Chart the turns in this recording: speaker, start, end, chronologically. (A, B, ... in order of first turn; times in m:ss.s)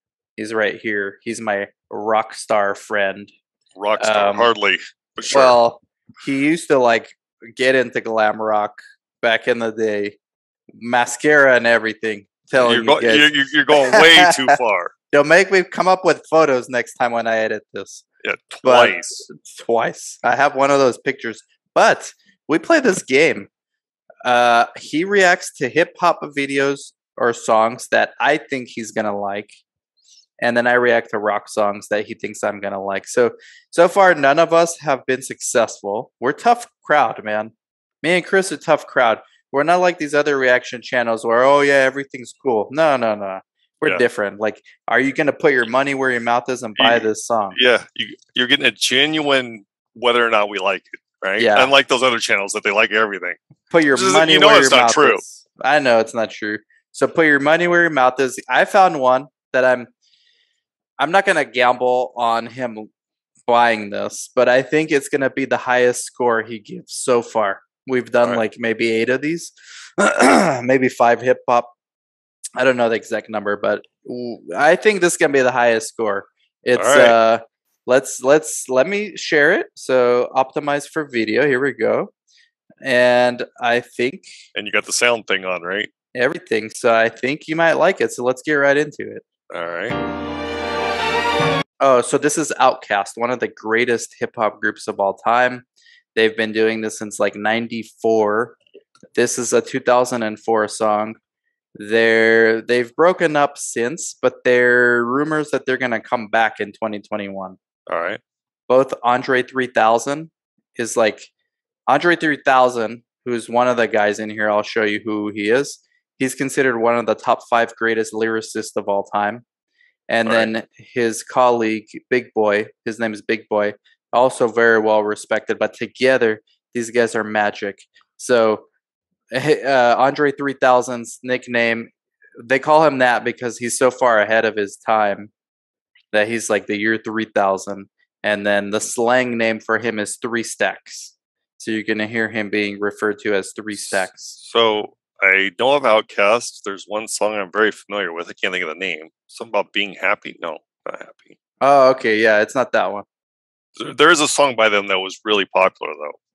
0:00.4-0:03.3 A
0:03.8-0:05.6 B
0:04.0-0:04.5 A
0:05.3-0:10.2 A
0:10.8-0:14.6 A
0:12.6-0:14.9 B
0:15.1-0:18.0 A
0:18.2-0:19.2 B
0:18.6-0:23.5 A
0:24.2-0:29.6 A
0:30.4-0:47.6 A
0:46.8-0:53.4 B
0:51.4-0:51.7 A
0:53.7-0:59.9 A
0:53.9-0:55.2 B
1:01.0-1:02.9 A
1:03.5-1:11.7 A
1:12.6-1:22.1 A
1:16.8-1:17.2 B
1:22.8-1:24.3 A
1:24.6-1:25.9 B
1:26.1-1:29.2 A
1:29.5-1:30.0 B
1:31.8-1:38.6 A
1:39.2-1:41.2 A
1:41.8-1:47.6 A
1:47.9-1:48.2 B
1:48.7-1:51.3 A
1:51.9-1:59.4 A
2:00.1-2:08.7 A
2:09.3-2:11.9 A
2:12.4-2:15.3 A
2:16.1-2:24.4 A
2:23.8-2:31.4 B
2:31.6-2:33.0 A
2:33.8-2:36.2 B